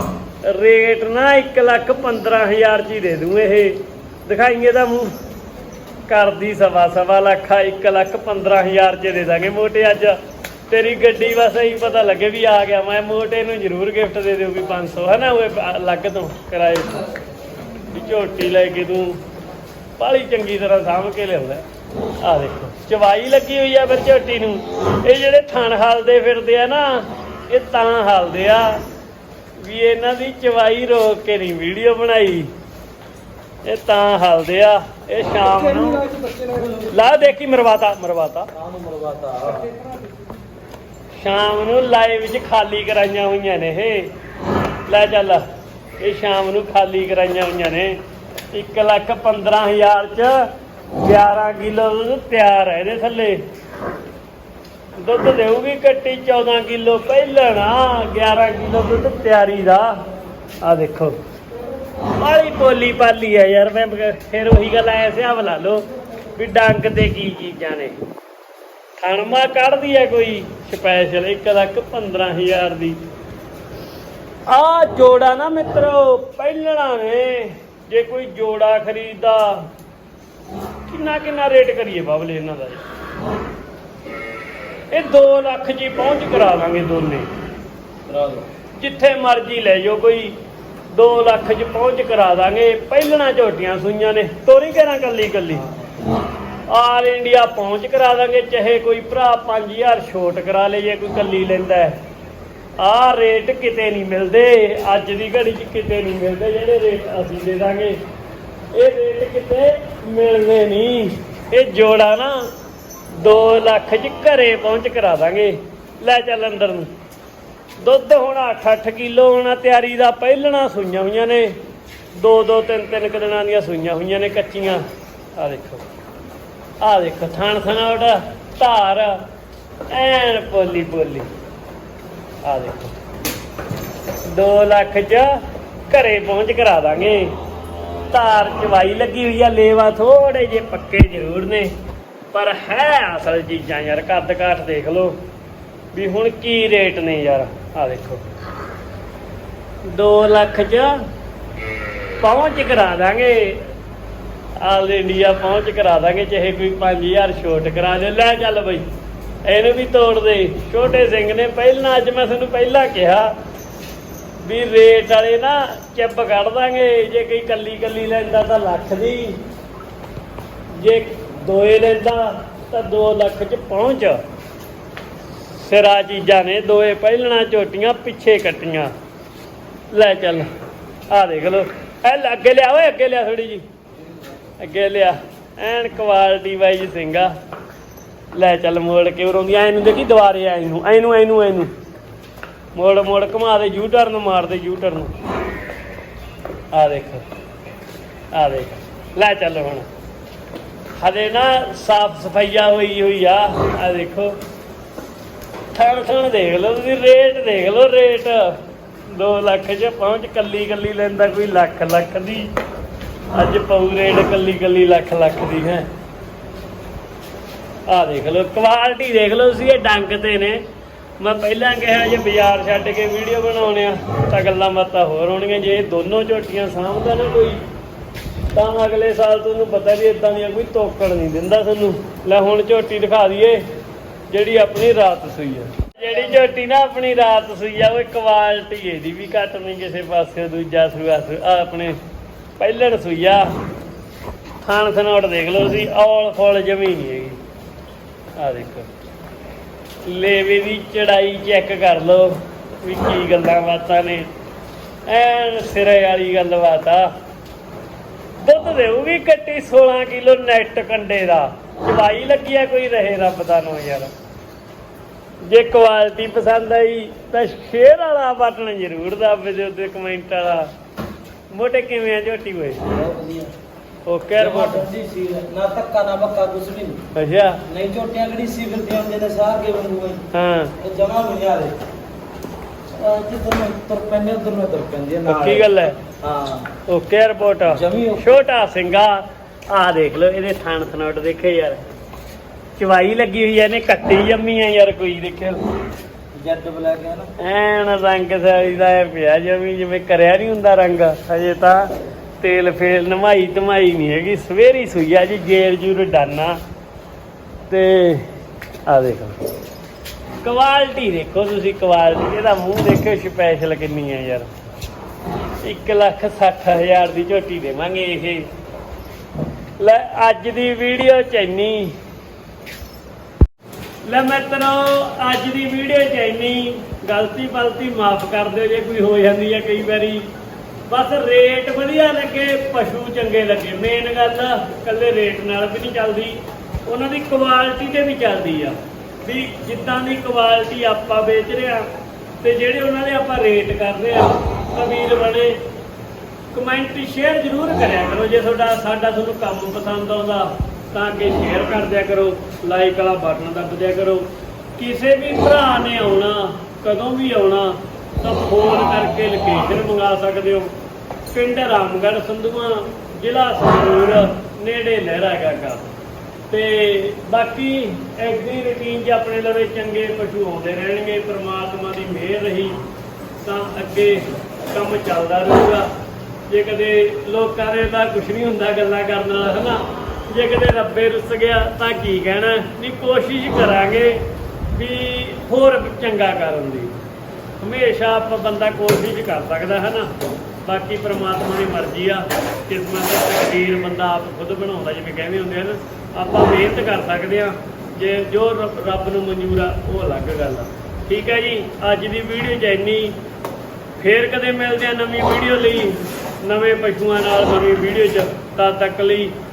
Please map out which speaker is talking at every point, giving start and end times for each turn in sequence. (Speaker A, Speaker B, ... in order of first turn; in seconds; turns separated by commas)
Speaker A: 0.4-5.1, Speaker A: 6.1-17.0, Speaker A: 17.9-19.2, Speaker A: 20.0-21.7, Speaker A: 22.2-28.8, Speaker A: 29.6-32.5, Speaker A: 33.6-36.1, Speaker B: 36.1-37.0, Speaker A: 36.9-38.5, Speaker B: 38.5-39.8, Speaker A: 41.2-44.1, Speaker A: 44.9-45.4, Speaker A: 46.0-48.0, Speaker A: 48.5-53.4, Speaker A: 55.0-60.0, Speaker A: 60.6-61.2, Speaker A: 62.1-68.0, Speaker A: 69.0-73.0, Speaker A: 74.5-79.7, Speaker A: 80.9-82.8, Speaker A: 84.9-87.3, Speaker B: 88.0-88.5, Speaker A: 88.8-90.4, Speaker A: 90.9-95.7, Speaker B: 95.7-95.9, Speaker A: 96.7-102.0, Speaker A: 102.8-108.0, Speaker A: 108.7-112.5, Speaker A: 113.1-116.9, Speaker A: 117.8-121.6, Speaker A: 122.1-124.8, Speaker A: 125.3-125.8, Speaker A: 126.8-129.2, Speaker A: 129.9-131.3, Speaker A: 132.4-133.0, Speaker A: 134.2-137.3, Speaker A: 138.1-141.7, Speaker A: 142.3-145.2, Speaker A: 145.9-148.2, Speaker A: 149.8-151.0, Speaker A: 152.2-153.7, Speaker A: 154.6-158.8, Speaker A: 159.4-163.3, Speaker A: 164.4-169.4, Speaker A: 170.8-174.2, Speaker A: 175.5-178.9, Speaker A: 179.9-180.5, Speaker A: 181.1-183.7, Speaker A: 184.6-187.3, Speaker A: 188.3-191.7, Speaker A: 192.7-195.1, Speaker A: 196.7-197.2, Speaker A: 198.3-199.9, Speaker A: 201.0-204.3, Speaker A: 205.7-212.5, Speaker A: 213.3-215.9, Speaker A: 217.9-220.6, Speaker A: 221.2-227.6, Speaker A: 228.5-233.6, Speaker A: 234.3-242.0, Speaker A: 242.6-243.5, Speaker A: 244.6-247.4, Speaker A: 248.4-248.9, Speaker A: 250.0-254.3, Speaker A: 255.1-257.1, Speaker A: 258.4-264.1, Speaker A: 265.4-270.7, Speaker A: 271.5-272.8, Speaker B: 272.9-273.5, Speaker A: 274.1-274.9, Speaker B: 274.4-277.0, Speaker A: 277.1-277.6, Speaker B: 277.7-280.2, Speaker A: 280.3-280.7, Speaker B: 280.8-281.8, Speaker B: 282.9-285.7, Speaker A: 285.3-286.0, Speaker B: 286.2-286.7, Speaker A: 286.9-291.8, Speaker B: 287.7-288.3, Speaker A: 292.8-295.6, Speaker B: 296.3-297.3, Speaker A: 297.4-306.6, Speaker A: 307.7-308.3, Speaker A: 308.9-309.4, Speaker A: 310.4-314.5, Speaker A: 315.6-318.5, Speaker A: 319.8-322.0, Speaker A: 324.0-330.3, Speaker A: 330.9-341.9, Speaker A: 342.4-345.6, Speaker A: 346.5-354.2, Speaker A: 354.8-360.7, Speaker A: 361.3-365.9, Speaker A: 366.5-372.8, Speaker A: 373.4-375.9, Speaker A: 376.5-386.9, Speaker A: 387.6-390.1, Speaker A: 390.6-403.2, Speaker A: 404.0-409.4